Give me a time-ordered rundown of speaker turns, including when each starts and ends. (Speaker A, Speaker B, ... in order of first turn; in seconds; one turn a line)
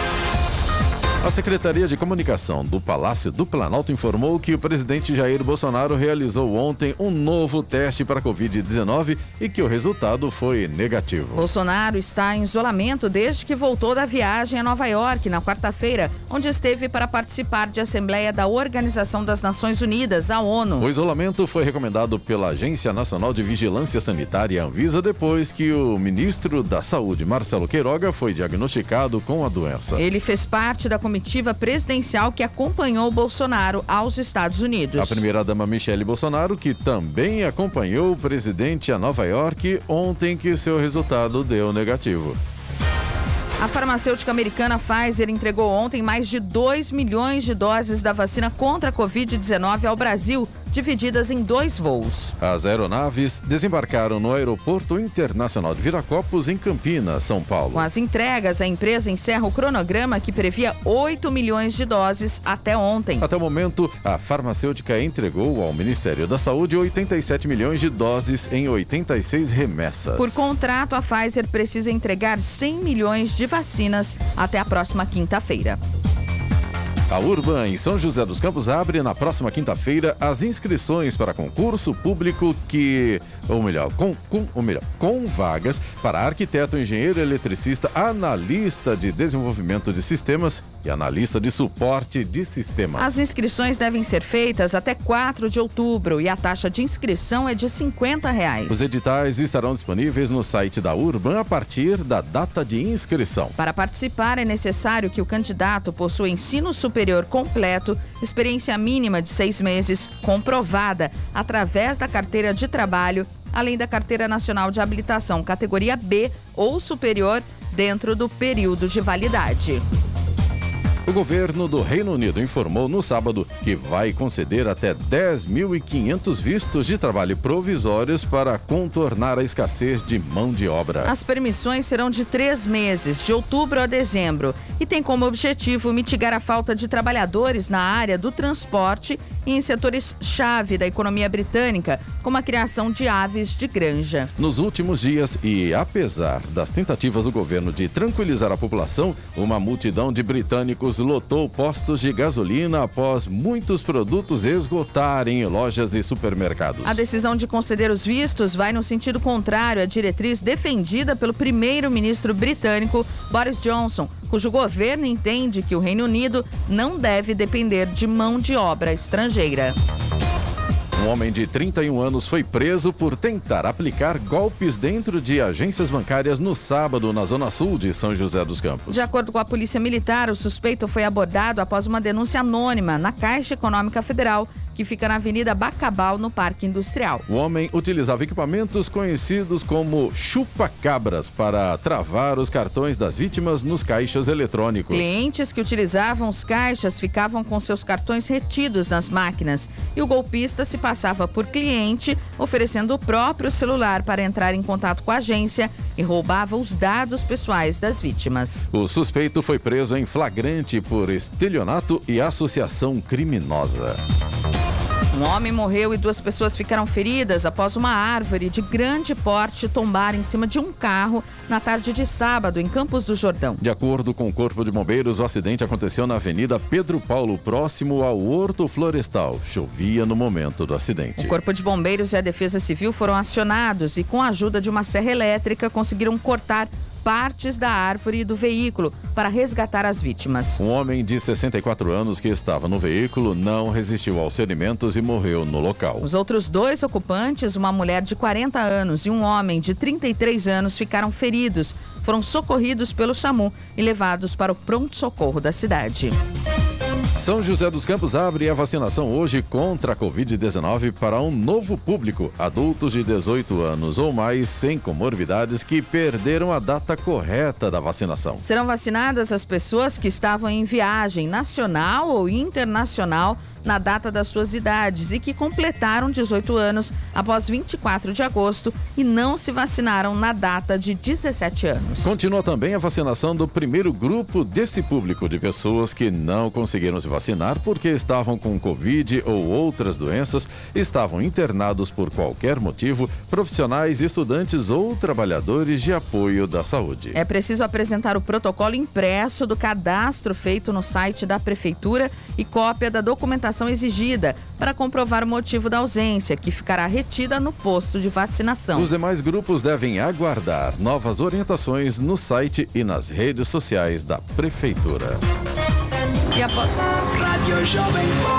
Speaker A: 1.2-11.5
Speaker B: 11.3-20.9
Speaker A: 20.8-30.0
Speaker B: 30.0-35.2
Speaker A: 35.0-42.4
Speaker B: 43.6-52.3
Speaker A: 52.4-57.9
Speaker B: 57.7-63.2
Speaker A: 63.2-70.5
Speaker B: 70.2-75.8
Speaker A: 77.1-93.1
Speaker B: 93.0-98.9
Speaker A: 98.7-103.5
Speaker B: 103.6-119.8
Speaker A: 121.0-131.1
Speaker B: 131.0-144.3
Speaker A: 144.4-157.0
Speaker B: 156.8-169.8
Speaker A: 170.9-179.1
Speaker B: 178.9-187.2
Speaker A: 187.3-195.2
Speaker B: 194.9-208.7
Speaker A: 208.7-214.0
Speaker B: 215.1-223.6
Speaker A: 223.6-231.3
Speaker B: 231.2-240.6
Speaker A: 240.6-246.1
Speaker B: 246.0-256.2
Speaker A: 257.1-268.4
Speaker B: 268.4-282.1
Speaker A: 282.0-297.2
Speaker B: 297.1-308.9
Speaker A: 308.7-315.2
Speaker B: 316.3-318.1